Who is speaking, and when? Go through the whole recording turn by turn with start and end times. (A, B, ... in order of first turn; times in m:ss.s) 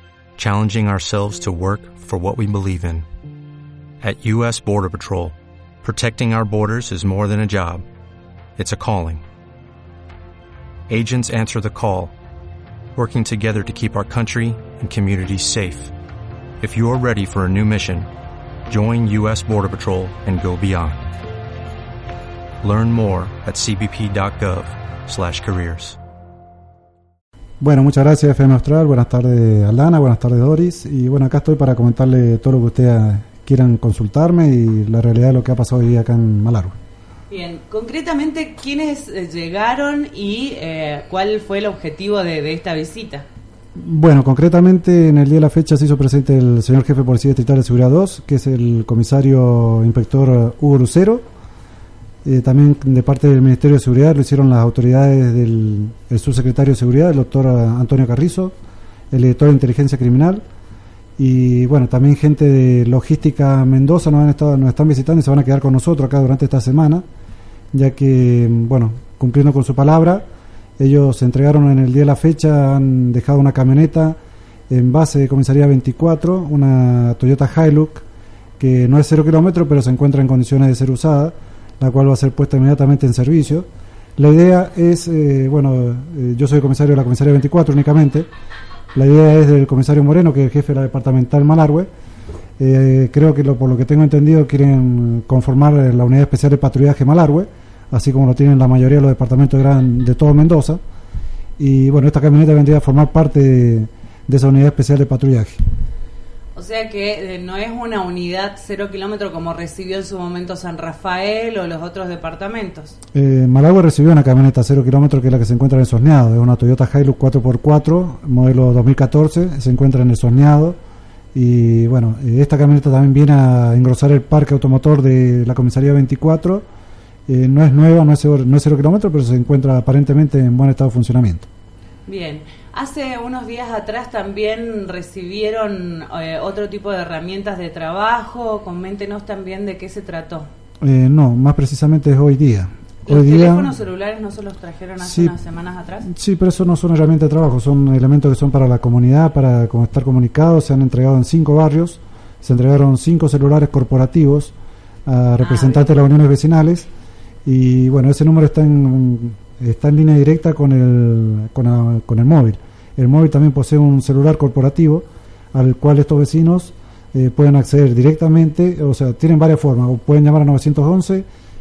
0:00.4-0:03.0 A
0:04.0-0:07.8 A
0:08.6-0:09.2 A
0:10.9-0:12.1 A
0:12.9-0:15.9 A
0:16.6-0:18.1 A
0:18.7-0:21.1 A
0:22.6-0:26.0 A
0:27.6-0:36.8 B
0:37.3-0:43.2 C
0:43.8-0:51.2 B
0:52.2-0:58.5 B
0:59.1-1:00.4 B
1:01.2-1:07.0 B
1:07.7-1:10.2 B
1:10.8-1:14.2 B
1:14.7-1:18.0 B
1:18.6-1:28.3 B
1:28.9-1:31.9 B
1:32.6-1:40.8 B
1:41.6-1:45.6 B
1:46.6-1:53.0 C
1:53.1-2:00.8 B
2:01.3-2:06.6 B
2:07.3-2:11.5 B
2:12.1-2:20.5 C
2:20.8-2:23.7 B
2:23.1-2:26.1 C
2:25.0-2:25.3 B
2:26.0-2:34.5 B
2:35.0-2:36.9 B
2:35.4-2:35.8 C
2:37.4-2:51.2 B